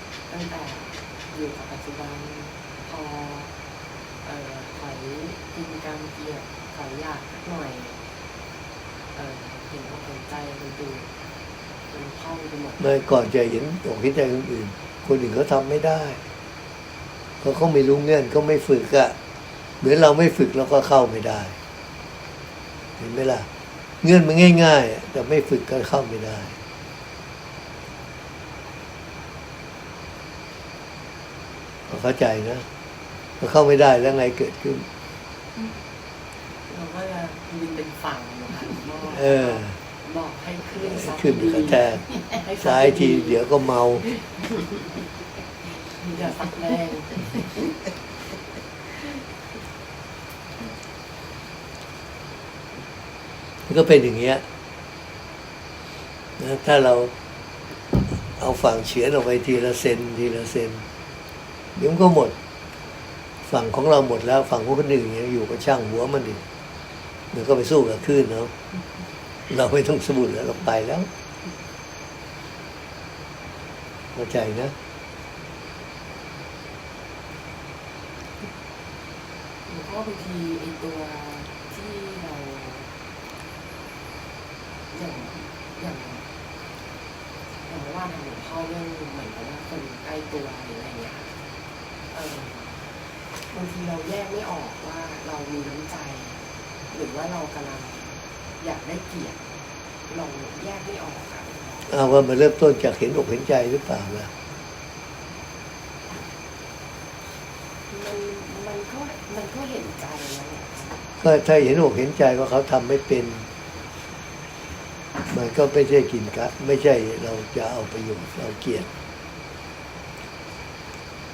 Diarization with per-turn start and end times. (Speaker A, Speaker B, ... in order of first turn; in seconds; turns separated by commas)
Speaker A: 0.3-3.5, Speaker A: 4.2-8.0, Speaker A: 9.1-11.1, Speaker A: 11.9-12.9, Speaker B: 12.8-16.2, Speaker B: 17.4-19.2, Speaker B: 19.8-21.6, Speaker B: 23.0-23.5, Speaker B: 24.0-26.6, Speaker B: 31.9-32.6, Speaker B: 33.4-34.9, Speaker A: 36.7-43.4, Speaker B: 39.1-39.8, Speaker B: 40.8-42.0, Speaker B: 42.6-44.1, Speaker A: 45.7-47.4, Speaker B: 53.7-54.4, Speaker B: 56.4-57.1, Speaker B: 58.1-60.8, Speaker B: 61.8-62.4, Speaker B: 63.5-66.4, Speaker B: 67.3-68.5, Speaker B: 69.5-71.1, Speaker B: 74.2-74.7, Speaker A: 79.7-82.9, Speaker A: 84.9-86.3, Speaker A: 87.7-91.3, Speaker A: 92.1-92.9, Speaker A: 93.5-99.4, Speaker A: 100.1-101.9, Speaker B: 101.9-104.3, Speaker A: 107.9-111.0, Speaker B: 111.2-113.5, Speaker B: 115.3-118.9